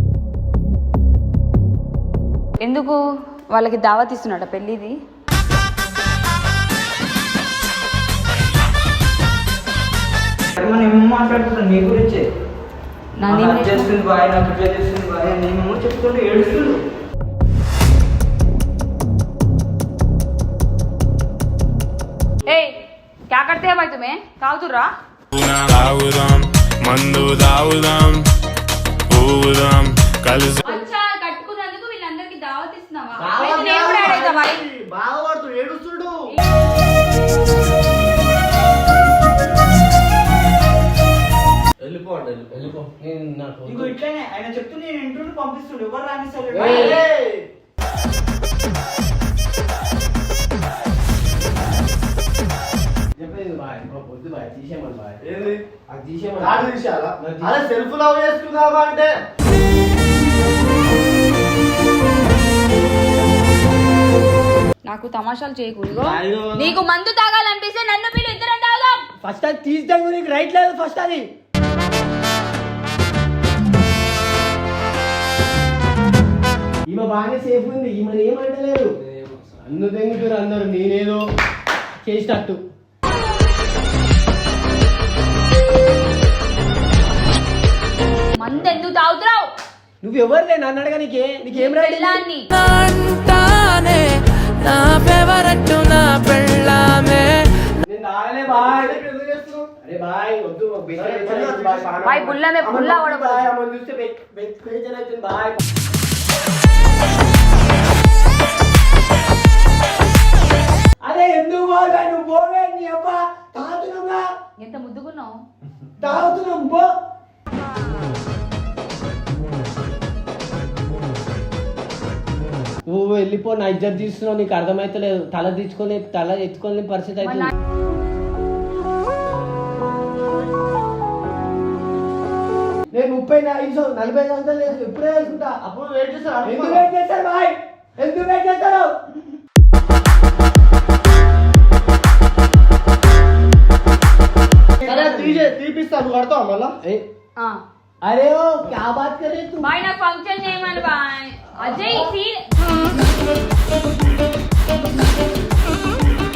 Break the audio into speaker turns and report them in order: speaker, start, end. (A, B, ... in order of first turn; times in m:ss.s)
0:02.6-0:03.0 A
0:03.5-0:05.0 A
0:10.5-0:12.3 B
0:13.2-0:13.9 A
0:13.2-0:16.8 B
0:22.4-0:22.8 A
0:23.3-0:24.9 A
0:25.3-0:28.2 C
0:29.1-0:30.6 C
0:30.6-0:34.6 A
0:33.2-0:34.4 D
0:33.2-0:36.2 E
0:41.8-0:42.8 E
0:42.6-0:44.0 D
0:43.7-0:47.0 B
0:46.5-0:47.0 D
0:46.5-0:47.5 E
0:46.6-0:47.1 A
0:53.2-0:55.2 D
0:55.2-0:55.6 E
0:55.9-0:57.6 D
0:56.4-0:59.1 E
1:04.9-1:09.0 A
1:05.9-1:06.8 E
1:09.2-1:11.2 D
1:16.9-1:18.9 D
1:19.6-1:21.2 D
1:22.0-1:22.6 D
1:28.3-1:29.5 A
1:30.0-1:32.2 D
1:31.5-1:32.5 A
1:32.6-1:37.5 F
1:37.8-1:39.0 D
1:38.5-1:39.7 E
1:39.8-1:45.6 D
1:40.9-1:42.3 E
1:42.0-1:43.5 A
1:51.0-1:54.2 D
1:54.6-1:55.4 A
1:56.0-1:56.9 D
1:57.9-1:58.1 D
2:02.9-2:07.5 D
2:07.2-2:07.5 A
2:12.9-2:15.6 D
2:15.6-2:16.9 E
2:16.4-2:18.9 D
2:24.8-2:26.8 E
2:28.0-2:29.7 D
2:29.6-2:32.4 A